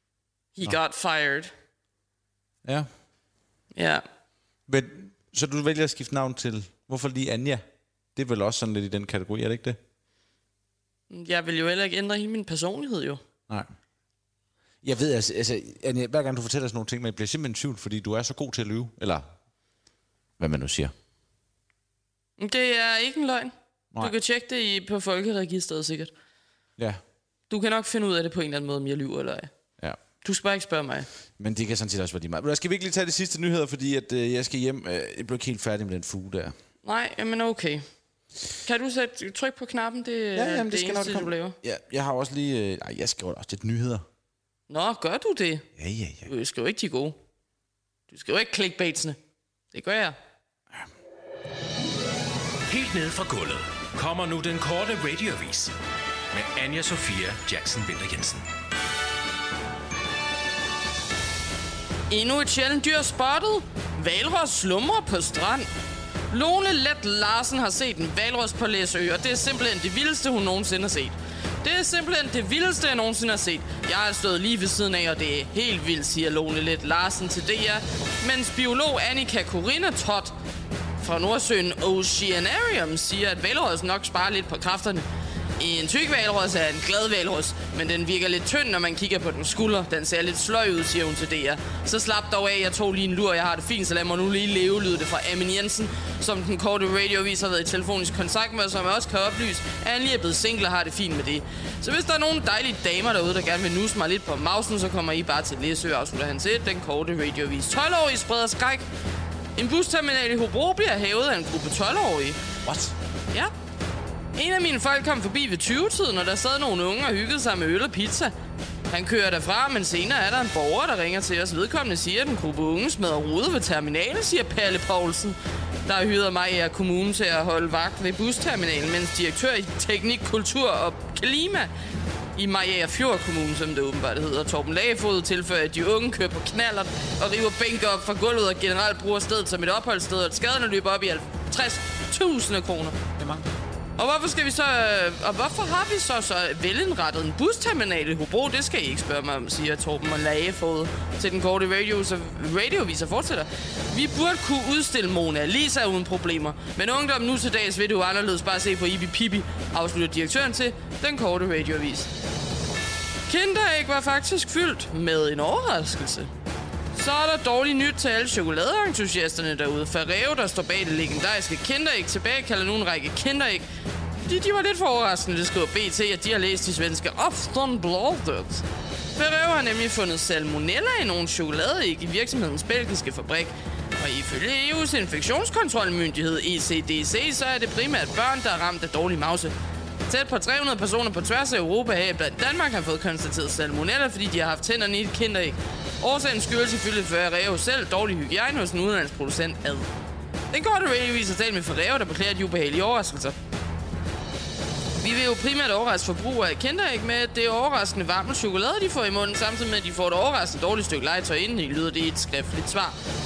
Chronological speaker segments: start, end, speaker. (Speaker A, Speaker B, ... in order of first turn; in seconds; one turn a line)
Speaker A: 0.5-1.5
Speaker A: 3.7-4.0
Speaker B: 4.7-7.6
Speaker B: 8.1-9.8
Speaker A: 11.1-13.2
Speaker B: 14.8-19.3
Speaker B: 20.4-20.9
Speaker A: 22.4-26.1
Speaker A: 27.5-29.5
Speaker A: 30.2-31.1
Speaker B: 31.4-36.5
Speaker A: 36.8-37.8
Speaker A: 38.6-41.6
Speaker B: 40.3-44.0
Speaker A: 44.7-45.7
Speaker B: 45.8-46.3
Speaker A: 46.2-47.2
Speaker A: 48.1-49.2
Speaker A: 49.7-50.1
Speaker C: 52.7-55.7
Speaker C: 56.3-58.5
Speaker A: 62.1-65.7
Speaker A: 66.3-80.3
Speaker A: 81.0-85.0
Speaker A: 85.6-108.8
Speaker A: 109.5-112.4
Speaker B: 112.6-112.9
Speaker A: 114.3-118.3
Speaker A: 118.9-131.7
Speaker A: 132.3-143.0
Speaker B: 143.2-143.5
Speaker A: 144.0-162.1
Speaker A: 163.3-166.3
Speaker A: 166.9-173.7
Speaker A: 174.2-189.5
Speaker A: 190.1-199.9
Speaker A: 200.5-203.4
Speaker A: 204.9-213.0